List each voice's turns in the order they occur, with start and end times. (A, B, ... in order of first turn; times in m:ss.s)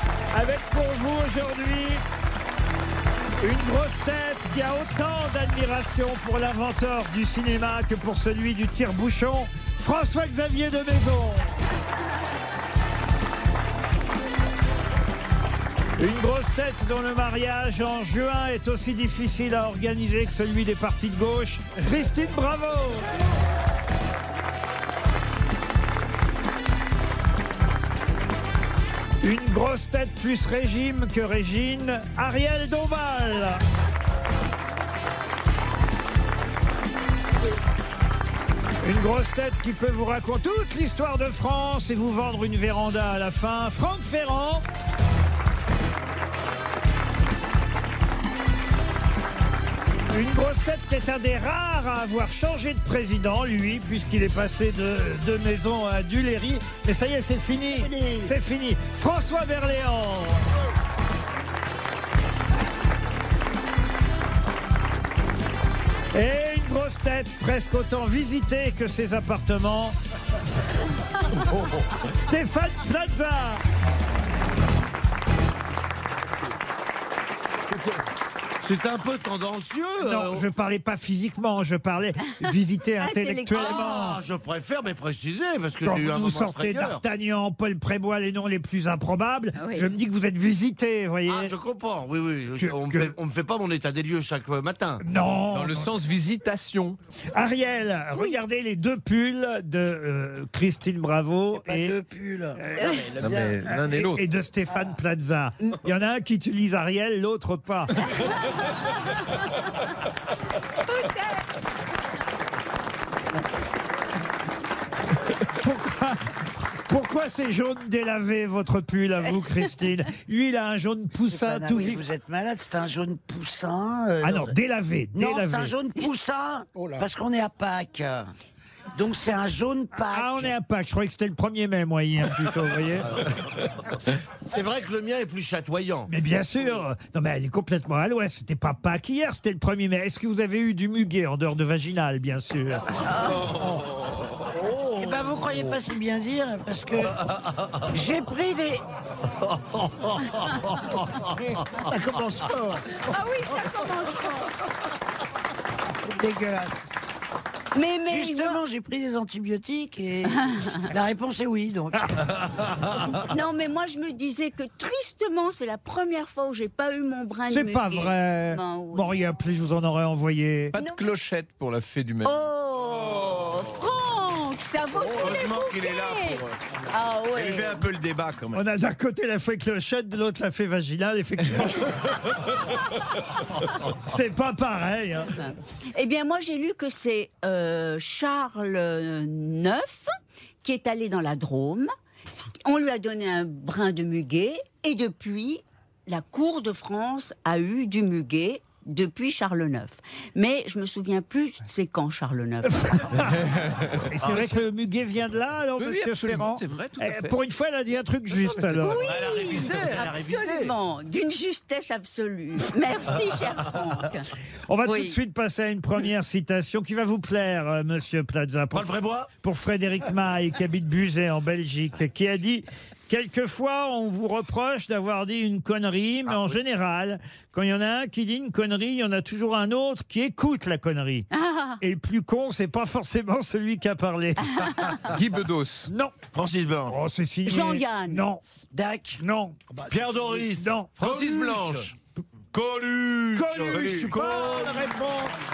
0:00.3-0:02.0 A
0:03.4-0:11.5 A
0:16.0-0:23.1 A
0:29.2-0:33.6 A
0:38.8-0:44.6 A
0:50.1-1:00.5 A
1:06.1-1:10.0 A
1:12.0-1:13.6 A
1:18.6-1:20.4 B
1:20.0-1:24.2 A
1:23.0-1:24.0 C
1:23.6-1:27.0 B
1:25.8-1:31.5 A
1:29.6-1:29.9 C
1:31.3-1:35.0 B
1:32.6-1:33.1 A
1:35.0-1:36.0 A
1:35.5-1:37.0 D
1:37.3-1:42.0 A
1:41.5-1:42.6 E
1:42.6-1:48.1 A
1:42.8-1:43.1 C
1:43.2-1:44.2 D
1:50.9-1:51.5 C
1:55.5-2:02.1 A
2:01.3-2:04.5 E
2:04.2-2:05.8 A
2:05.1-2:08.3 E
2:08.9-2:10.5 E
2:10.1-2:13.2 A
2:14.4-2:16.1 B
2:16.1-2:23.4 A
2:24.7-2:27.2 E
2:25.0-2:25.6 B
2:27.9-2:28.8 E
2:29.8-2:30.9 B
2:31.8-2:32.8 E
2:32.9-2:34.5 C
2:36.0-2:36.8 E
2:37.7-2:38.6 C
2:38.1-2:42.1 E
2:40.4-2:40.7 C
2:43.2-2:49.1 C
2:47.5-2:50.8 A
2:50.7-2:52.4 D
2:50.8-2:51.0 C
2:52.2-2:57.9 C
2:55.0-2:55.4 D
2:55.2-2:56.4 F
2:57.3-2:58.6 F
2:58.5-3:02.2 A
3:03.8-3:05.4 A
3:05.9-3:10.1 C
3:10.6-3:11.9 C
3:12.6-3:23.1 C
3:22.8-3:29.1 A
3:25.8-3:27.3 D
3:28.4-3:28.8 D
3:28.8-3:34.3 C
3:28.9-3:30.7 B
3:34.7-3:51.3 A
3:34.8-3:35.2 C
3:38.7-3:39.3 B
3:46.3-3:46.6 B
3:51.3-3:51.8 C
3:51.8-3:55.2 A
3:54.6-3:55.0 C
3:55.1-3:55.9 D
3:55.9-3:56.2 A
3:56.3-3:56.9 B
3:56.9-3:58.4 A
3:57.4-3:58.2 C
3:58.7-3:59.2 E
3:59.2-3:59.6 A
3:59.9-4:01.9 B
4:00.5-4:01.0 A
4:01.0-4:01.8 D
4:01.1-4:01.6 F
4:02.5-4:04.6 B
4:03.3-4:05.4 A
4:03.7-4:04.5 F